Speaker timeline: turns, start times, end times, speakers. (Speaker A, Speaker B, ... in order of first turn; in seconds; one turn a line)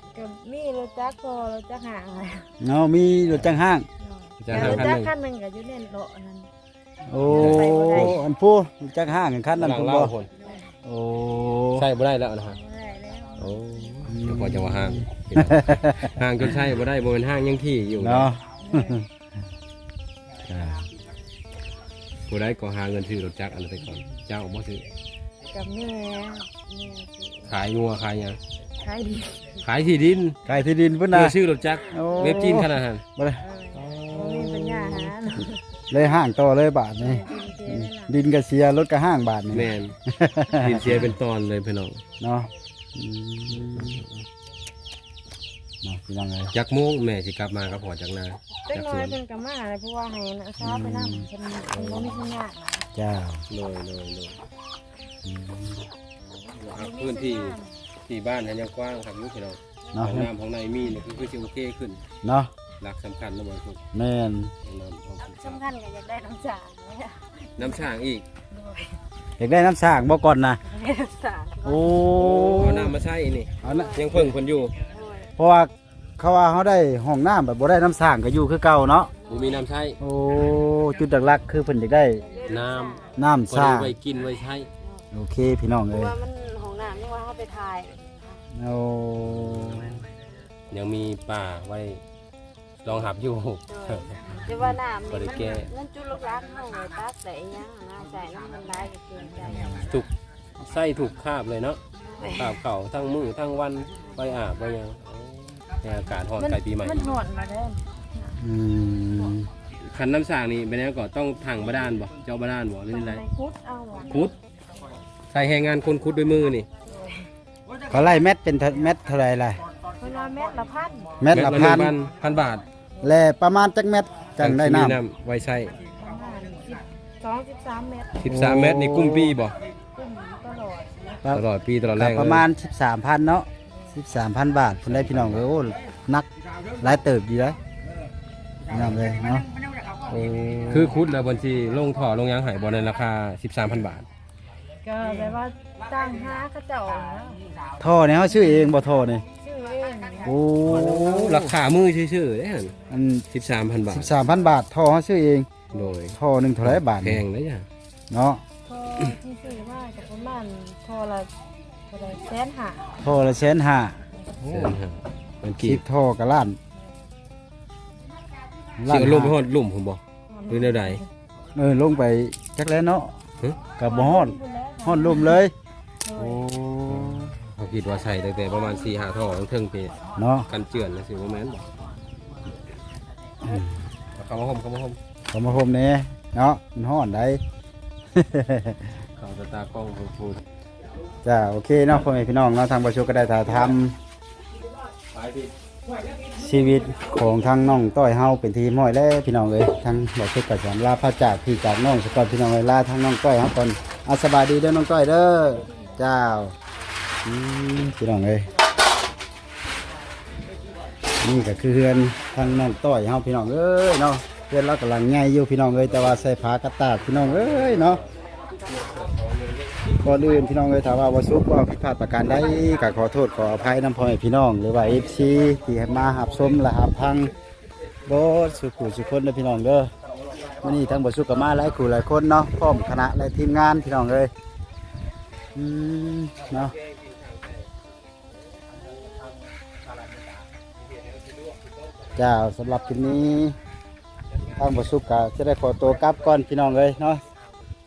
Speaker A: 0.1-2.5
Speaker B: 2.6-3.9
Speaker A: 4.0-6.5
Speaker C: 4.4-5.1
Speaker B: 4.5-4.9
Speaker B: 7.1-10.2
Speaker A: 7.3-8.2
Speaker C: 7.3-8.2
Speaker C: 9.6-10.3
Speaker A: 10.4-10.7
Speaker B: 10.8-11.9
Speaker C: 11.8-12.6
Speaker A: 12.5-13.6
Speaker C: 13.4-18.3
Speaker B: 14.1-16.1
Speaker B: 18.0-19.1
Speaker A: 18.6-19.0
Speaker B: 20.4-20.9
Speaker C: 22.3-24.9
Speaker A: 25.5-27.5
Speaker C: 27.5-28.4
Speaker A: 28.8-29.6
Speaker C: 29.6-30.4
Speaker B: 30.5-33.4
Speaker C: 31.1-33.0
Speaker A: 33.4-35.6
Speaker C: 33.7-35.2
Speaker B: 35.9-41.1
Speaker A: 37.0-38.1
Speaker C: 39.5-40.0
Speaker C: 40.6-42.0
Speaker B: 42.2-44.0
Speaker C: 43.5-44.2
Speaker B: 45.8-46.5
Speaker C: 46.5-49.2
Speaker A: 48.7-52.9
Speaker B: 50.6-51.3
Speaker C: 51.6-52.2
Speaker B: 53.0-53.4
Speaker C: 53.5-54.4
Speaker B: 55.2-55.9
Speaker A: 56.3-57.8
Speaker C: 56.6-62.0
Speaker A: 59.9-60.2
Speaker B: 59.9-60.3
Speaker B: 62.2-62.5
Speaker C: 62.8-63.8
Speaker B: 63.9-64.5
Speaker C: 64.7-65.6
Speaker A: 65.2-67.9
Speaker C: 67.6-68.2
Speaker A: 68.5-69.0
Speaker B: 69.4-70.6
Speaker A: 70.6-72.1
Speaker B: 71.6-73.0
Speaker C: 72.1-74.8
Speaker B: 73.6-74.3
Speaker A: 73.6-74.2
Speaker A: 74.9-75.3
Speaker B: 75.4-79.1
Speaker C: 79.3-80.0
Speaker A: 79.3-79.6
Speaker B: 80.0-82.2
Speaker A: 82.2-83.2
Speaker C: 82.5-84.7
Speaker B: 83.2-83.9
Speaker B: 85.1-86.1
Speaker A: 85.9-88.4
Speaker B: 88.5-90.0
Speaker C: 89.2-90.0
Speaker C: 90.7-92.0
Speaker C: 92.8-94.5
Speaker A: 93.7-99.9
Speaker C: 95.1-95.7
Speaker C: 99.8-107.2
Speaker A: 102.0-102.6
Speaker A: 106.4-108.4
Speaker B: 108.4-109.5
Speaker C: 109.8-113.2
Speaker A: 112.9-114.4
Speaker C: 115.3-116.7
Speaker A: 116.9-117.3
Speaker B: 117.9-119.6
Speaker A: 120.0-121.2
Speaker B: 121.2-122.0
Speaker C: 121.3-122.6
Speaker B: 123.0-125.0
Speaker C: 124.4-125.8
Speaker A: 125.9-128.3
Speaker C: 128.2-129.6
Speaker B: 128.3-129.4
Speaker A: 129.9-131.2
Speaker B: 131.2-136.3
Speaker C: 131.3-132.5
Speaker C: 134.8-135.4
Speaker B: 136.8-137.6
Speaker B: 138.7-139.5
Speaker B: 140.1-140.9
Speaker C: 140.7-144.1
Speaker A: 144.8-147.4
Speaker B: 147.8-149.2
Speaker A: 149.4-150.3
Speaker B: 150.2-151.6
Speaker C: 150.6-152.8
Speaker B: 152.9-153.3
Speaker C: 153.3-154.2
Speaker B: 153.9-157.2
Speaker C: 155.7-157.7
Speaker B: 158.1-158.4
Speaker A: 158.7-161.3
Speaker A: 161.9-162.9
Speaker B: 163.0-164.8
Speaker C: 164.4-165.8
Speaker B: 165.6-166.6
Speaker B: 168.8-169.4
Speaker C: 168.9-171.0
Speaker A: 170.3-171.0
Speaker B: 171.6-173.1
Speaker B: 173.8-175.5
Speaker A: 173.8-175.4
Speaker A: 176.0-176.4
Speaker B: 176.2-177.3
Speaker C: 176.9-180.0
Speaker B: 180.2-180.5
Speaker C: 180.5-181.7
Speaker B: 183.4-183.8
Speaker C: 184.2-185.0
Speaker B: 185.3-187.4
Speaker B: 188.1-189.0
Speaker C: 189.2-190.4
Speaker B: 191.2-194.0
Speaker C: 195.1-195.5
Speaker B: 196.3-206.5
Speaker B: 207.2-208.5
Speaker B: 211.2-218.0
Speaker C: 217.3-218.0
Speaker C: 218.7-219.8
Speaker B: 220.0-227.3
Speaker B: 228.1-229.9
Speaker B: 230.6-234.3
Speaker B: 235.6-236.8
Speaker B: 242.2-243.6
Speaker B: 244.6-247.2